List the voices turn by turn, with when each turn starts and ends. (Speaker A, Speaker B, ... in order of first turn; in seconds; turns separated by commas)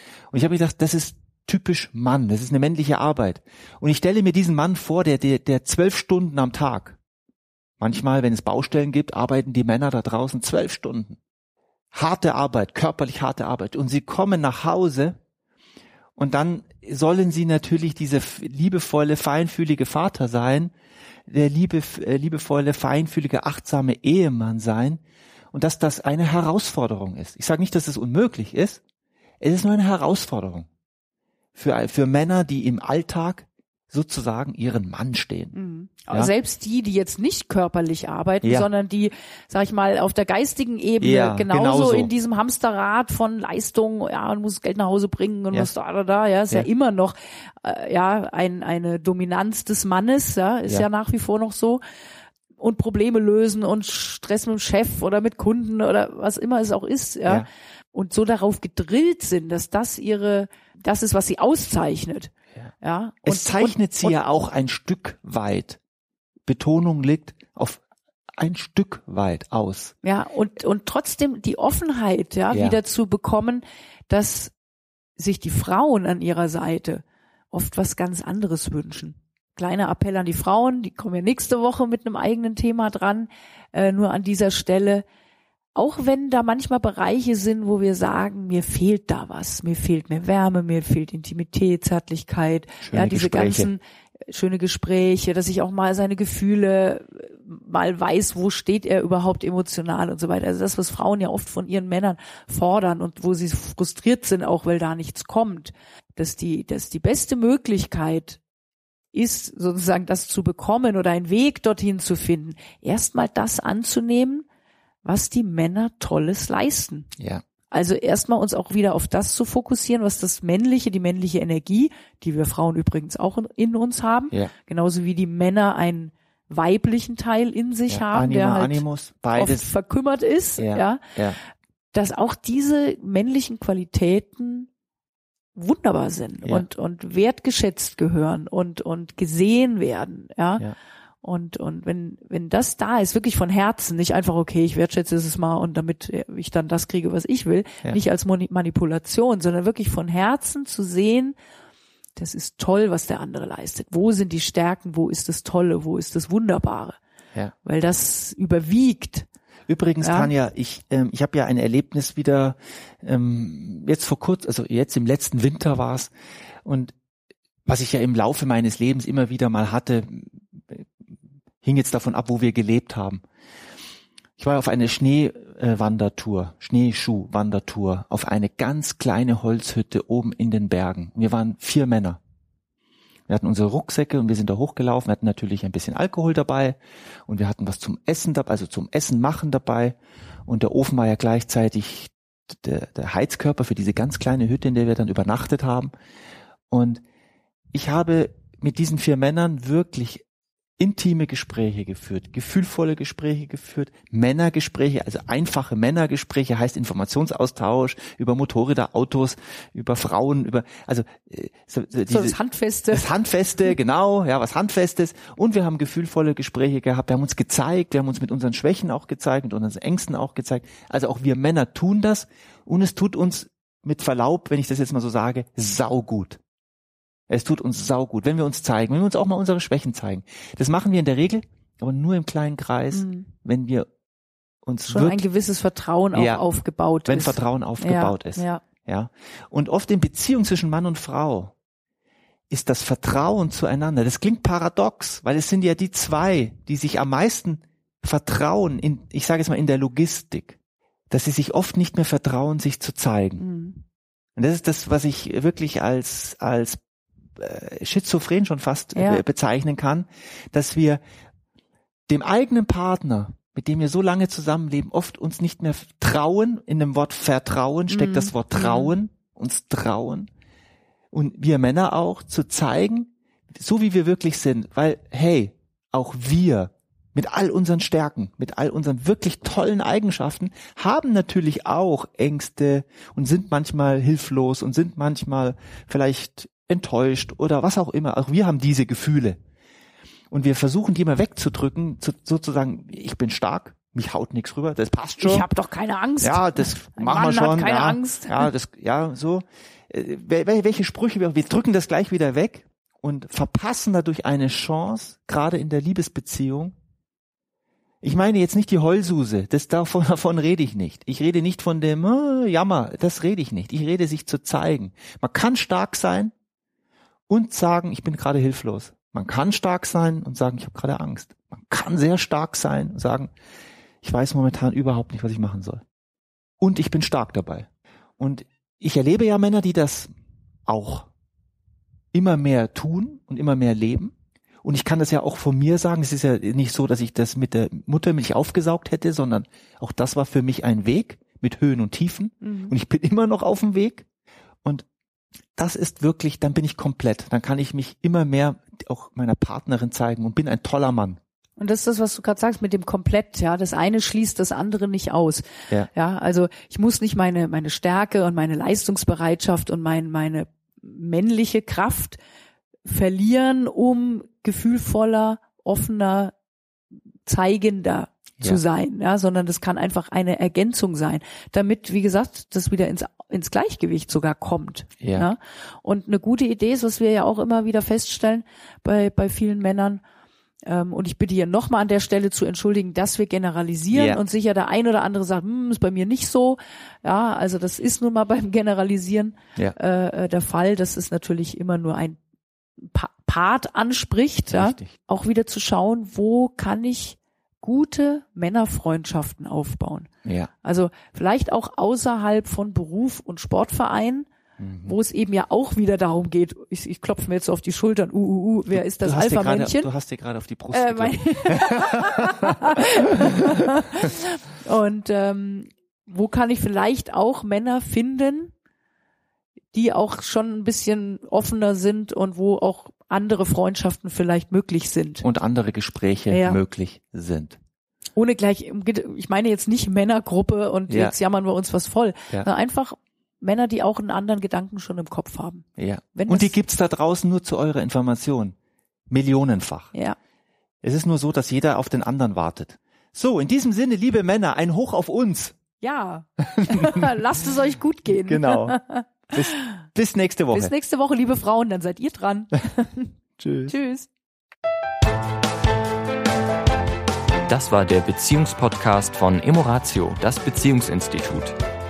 Speaker A: 0.3-7.0, Speaker A: 7.8-11.2, Speaker A: 11.9-15.2, Speaker A: 16.2-20.7, Speaker A: 21.3-25.0, Speaker A: 25.5-28.8, Speaker A: 29.4-30.7, Speaker A: 31.5-35.5, Speaker B: 35.5-51.8, Speaker A: 38.4-38.7, Speaker A: 41.0-42.1, Speaker B: 52.6-64.2, Speaker A: 63.2-65.8, Speaker A: 66.5-67.8, Speaker A: 68.4-69.9, Speaker B: 70.0-74.5, Speaker A: 72.5-72.8, Speaker B: 75.2-85.0, Speaker B: 85.7-108.4, Speaker A: 92.8-93.7, Speaker B: 109.1-114.5, Speaker B: 115.0-117.1, Speaker A: 117.2-117.4, Speaker B: 117.7-131.0, Speaker A: 127.9-129.7, Speaker A: 130.6-131.4, Speaker B: 131.9-134.7, Speaker B: 135.5-140.7, Speaker B: 141.2-151.4, Speaker B: 152.2-157.0, Speaker B: 157.6-159.3, Speaker A: 159.7-166.1, Speaker B: 160.0-160.3, Speaker A: 166.6-166.9, Speaker A: 167.7-170.9, Speaker A: 171.6-173.2, Speaker A: 174.4-182.2, Speaker A: 183.3-195.9, Speaker A: 196.7-197.0, Speaker A: 197.7-200.2, Speaker A: 200.8-212.4, Speaker B: 212.1-213.1, Speaker A: 212.9-226.4, Speaker A: 227.3-233.9, Speaker B: 232.9-233.3, Speaker A: 234.6-235.3, Speaker B: 234.9-238.6, Speaker A: 236.1-236.4, Speaker A: 237.1-241.5, Speaker A: 242.5-250.6, Speaker A: 251.1-253.4, Speaker B: 253.4-253.8, Speaker A: 254.3-256.8, Speaker A: 257.4-261.0, Speaker B: 258.9-259.2, Speaker A: 262.1-270.3, Speaker B: 267.9-268.9, Speaker A: 271.1-289.4, Speaker A: 290.3-295.5, Speaker B: 295.2-298.5, Speaker A: 296.2-306.7, Speaker A: 308.0-316.3, Speaker A: 317.3-323.3, Speaker A: 324.0-325.8, Speaker A: 326.6-327.7, Speaker A: 328.2-330.1, Speaker A: 330.7-331.1, Speaker A: 332.1-344.1, Speaker B: 342.4-342.7, Speaker A: 345.6-351.2, Speaker B: 351.6-362.2, Speaker B: 362.8-366.3, Speaker B: 367.2-380.0, Speaker A: 375.0-375.3, Speaker B: 380.7-392.2, Speaker A: 383.9-384.2, Speaker B: 392.8-400.1, Speaker A: 394.5-394.9, Speaker A: 400.2-400.5, Speaker B: 400.6-404.3, Speaker A: 404.6-404.9, Speaker B: 404.9-409.9, Speaker A: 408.7-412.9, Speaker B: 410.7-418.5, Speaker B: 419.7-425.2, Speaker A: 425.2-427.6, Speaker B: 426.3-426.6, Speaker B: 428.2-436.6, Speaker A: 430.9-431.1, Speaker A: 435.8-438.6, Speaker A: 439.1-439.9, Speaker A: 440.8-445.6, Speaker B: 445.8-449.1, Speaker A: 446.4-447.1, Speaker A: 448.1-448.8, Speaker A: 449.3-450.7, Speaker B: 450.5-453.1, Speaker A: 453.4-453.7, Speaker B: 453.7-454.1, Speaker C: 457.5-461.6